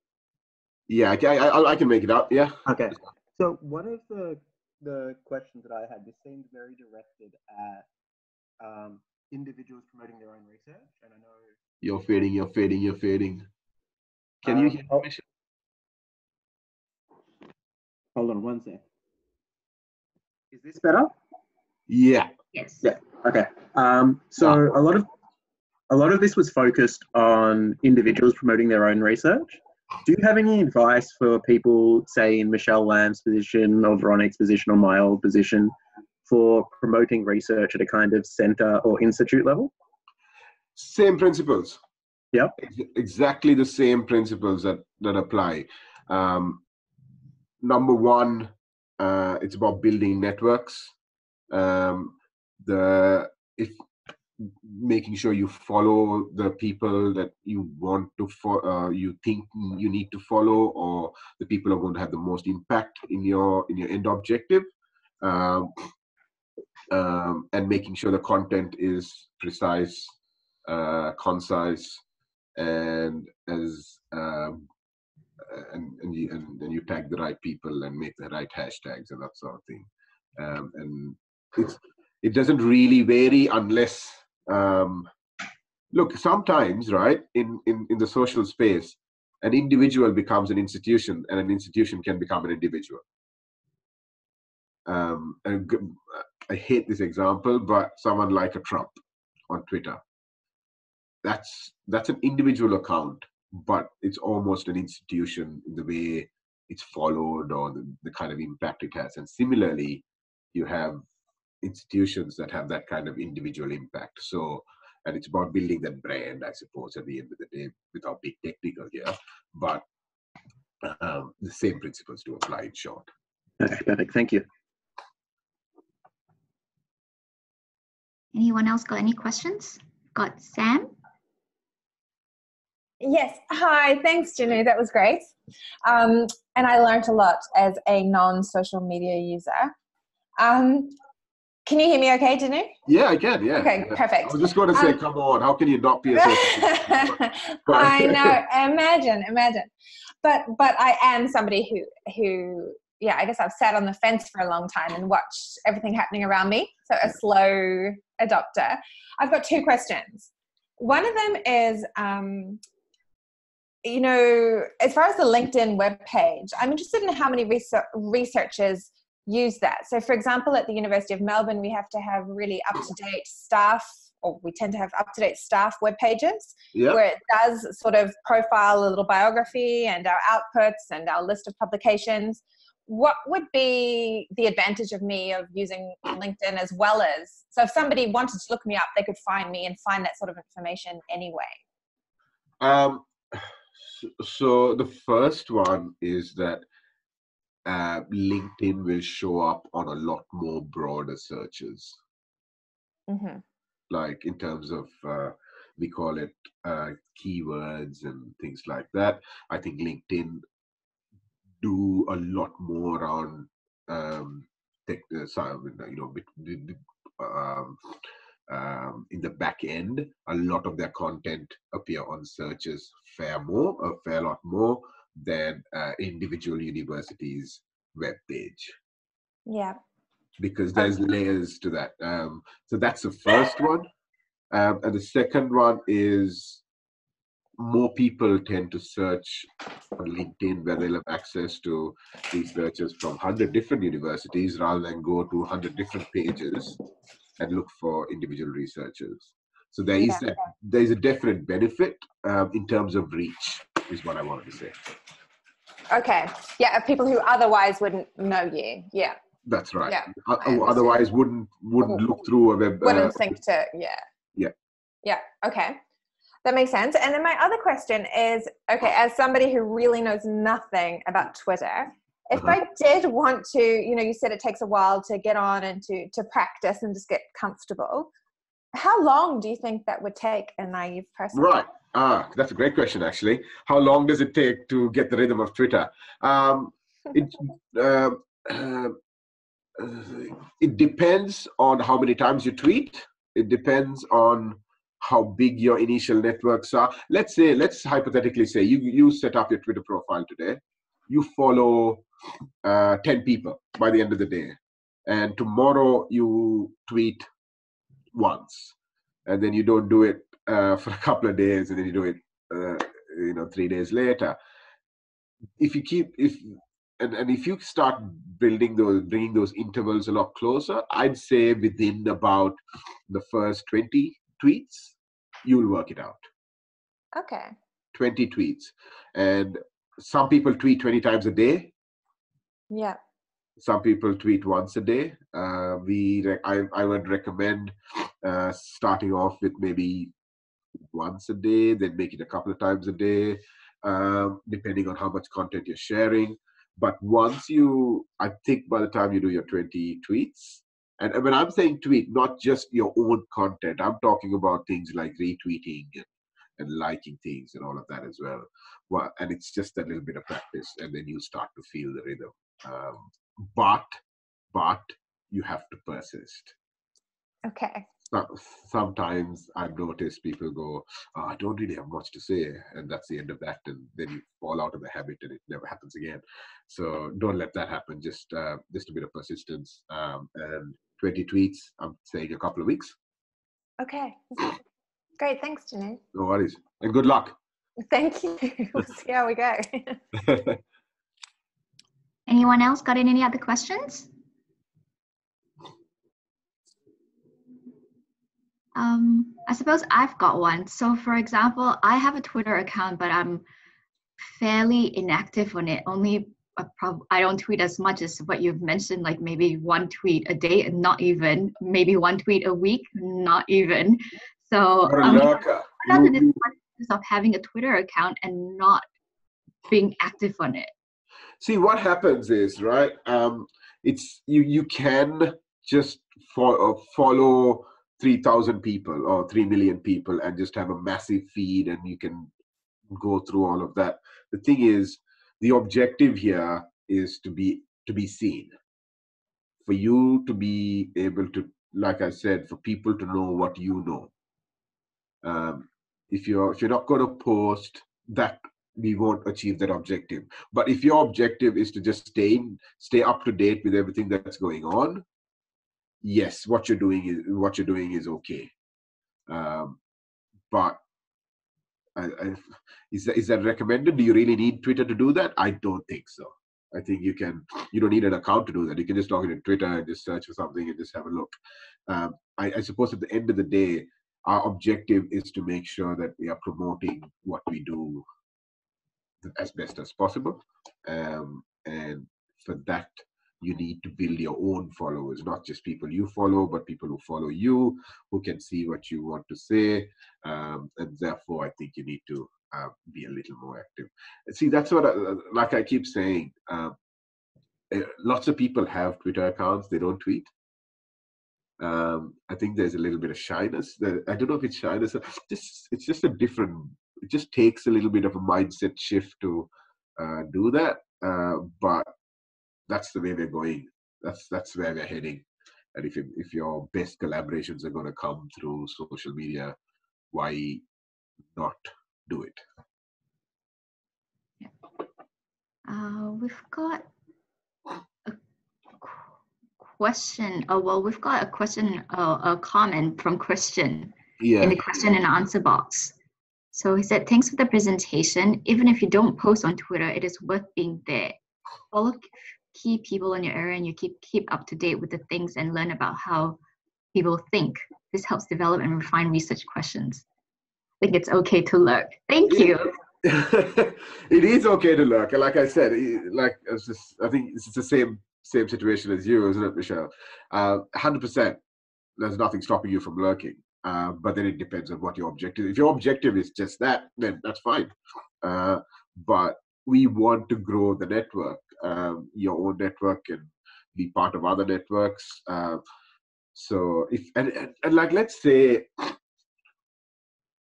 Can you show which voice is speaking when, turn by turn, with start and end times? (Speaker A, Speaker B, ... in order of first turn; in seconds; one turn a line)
Speaker A: 0.9-2.5
Speaker B: 2.7-7.9
Speaker B: 8.6-11.5
Speaker A: 11.8-13.5
Speaker A: 14.4-15.2
Speaker B: 14.4-15.1
Speaker B: 18.1-18.8
Speaker B: 20.5-21.1
Speaker A: 21.9-22.3
Speaker C: 22.5-22.9
Speaker B: 22.8-25.1
Speaker B: 25.9-35.7
Speaker B: 36.2-39.7
Speaker A: 40.8-41.8
Speaker A: 42.6-46.6
Speaker A: 47.6-50.9
Speaker A: 51.5-53.8
Speaker A: 54.4-64.7
Speaker A: 65.2-65.7
Speaker A: 66.9-72.0
Speaker A: 72.6-74.6
Speaker A: 75.4-85.1
Speaker A: 85.9-93.0
Speaker A: 94.8-98.9
Speaker A: 99.5-100.0
Speaker A: 101.2-111.0
Speaker A: 111.6-119.8
Speaker A: 120.8-123.0
Speaker B: 123.6-124.4
Speaker C: 128.3-130.9
Speaker D: 133.0-135.3
Speaker D: 135.8-139.7
Speaker D: 140.4-140.9
Speaker D: 141.7-142.7
Speaker A: 142.9-148.4
Speaker D: 143.6-145.0
Speaker D: 146.2-149.7
Speaker D: 150.2-162.6
Speaker D: 163.8-191.6
Speaker A: 176.7-177.0
Speaker A: 192.6-196.6
Speaker A: 197.7-202.0
Speaker D: 203.1-203.4
Speaker A: 203.9-210.4
Speaker A: 211.6-217.8
Speaker A: 218.5-228.7
Speaker D: 229.5-229.8
Speaker A: 230.4-233.9
Speaker A: 234.5-236.6
Speaker A: 237.6-246.8
Speaker A: 247.4-254.8
Speaker D: 255.9-259.2
Speaker A: 259.4-263.3
Speaker D: 259.9-261.0
Speaker D: 262.8-264.0
Speaker D: 265.0-265.8
Speaker D: 266.4-278.1
Speaker D: 278.7-281.4
Speaker A: 281.3-289.0
Speaker A: 289.8-302.0
Speaker A: 302.6-307.2
Speaker A: 308.1-308.7
Speaker A: 309.2-314.4
Speaker A: 315.6-322.6
Speaker A: 323.1-326.2
Speaker D: 327.1-327.5
Speaker A: 327.9-331.7
Speaker D: 332.7-333.0
Speaker A: 333.6-340.1
Speaker A: 340.9-356.1
Speaker A: 356.6-363.9
Speaker A: 364.5-366.5
Speaker D: 367.4-367.9
Speaker A: 368.1-382.9
Speaker D: 383.8-384.6
Speaker D: 385.2-386.0
Speaker A: 386.1-387.4
Speaker D: 387.9-390.0
Speaker A: 390.2-390.6
Speaker C: 392.3-394.1
Speaker C: 398.7-403.4
Speaker C: 404.2-418.8
Speaker A: 414.8-416.4
Speaker C: 419.7-420.7
Speaker A: 421.4-432.3
Speaker A: 432.9-438.5
Speaker A: 439.6-444.1
Speaker A: 445.2-455.0
Speaker A: 456.0-458.5
Speaker A: 459.3-459.8
Speaker A: 460.5-460.8
Speaker A: 461.9-471.3
Speaker A: 471.9-478.0
Speaker A: 479.2-496.7
Speaker A: 497.7-500.3
Speaker A: 501.6-511.9
Speaker A: 512.7-519.5
Speaker A: 520.1-520.6
Speaker A: 521.3-522.4
Speaker C: 525.7-526.9
Speaker C: 528.8-529.1
Speaker C: 529.6-535.9
Speaker A: 534.2-534.6
Speaker C: 536.5-541.1
Speaker C: 541.7-546.4
Speaker C: 546.9-550.0
Speaker C: 550.8-552.7
Speaker A: 552.2-561.4
Speaker A: 562.0-575.6
Speaker A: 576.3-579.0